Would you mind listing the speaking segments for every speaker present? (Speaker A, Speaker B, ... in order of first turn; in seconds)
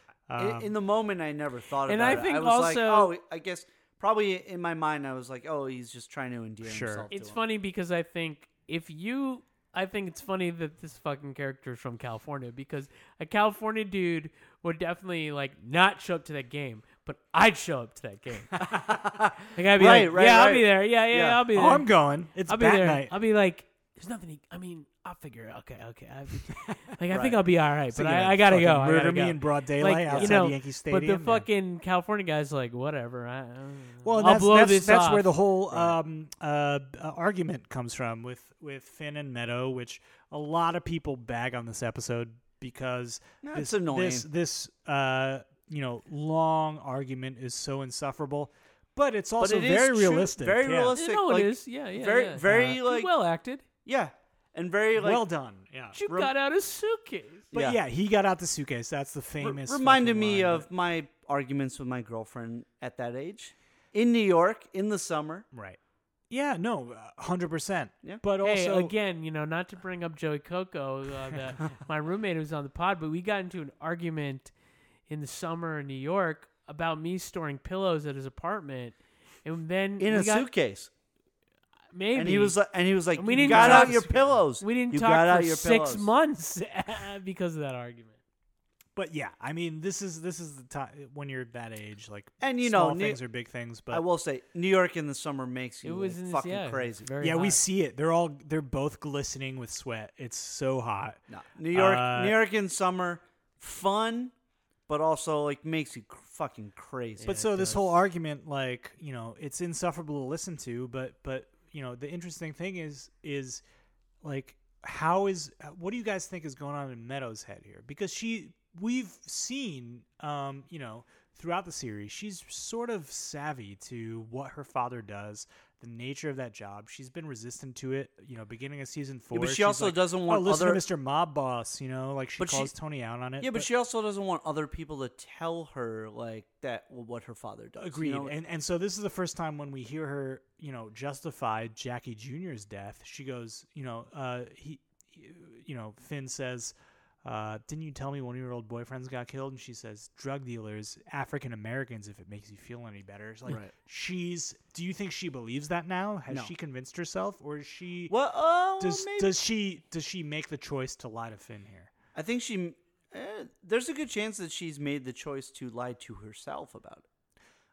Speaker A: 0.3-0.7, 6.6-7.1, 21.5-23.1, 27.9-31.5, 34.0-50.9, 55.0-56.0, 57.5-60.7, 65.5-65.8, 66.3-68.9, 83.4-84.3, 89.0-94.0, 97.2-102.4, 107.3-113.6, 114.2-133.7, 137.8-158.1, 158.8-161.9
Speaker B: 0.4-7.4, 18.6-21.4, 27.1-27.4, 30.1-30.4, 43.4-44.2, 49.4-53.1, 53.8-55.2, 57.5-57.8, 59.4-65.5, 80.0-80.9, 82.2-86.1, 92.4-93.2, 93.9-97.1, 101.3-104.3, 104.9-107.3, 129.3-130.8, 132.4-132.7, 133.4-138.3, 153.5-153.7, 158.1-159.3, 162.1-167.0
Speaker C: 1.9-3.1, 7.1-21.9, 22.4-35.4, 50.9-53.6, 55.9-57.5, 68.4-74.5, 75.1-80.5, 81.9-82.6, 83.2-88.2, 95.8-97.6, 107.2-108.0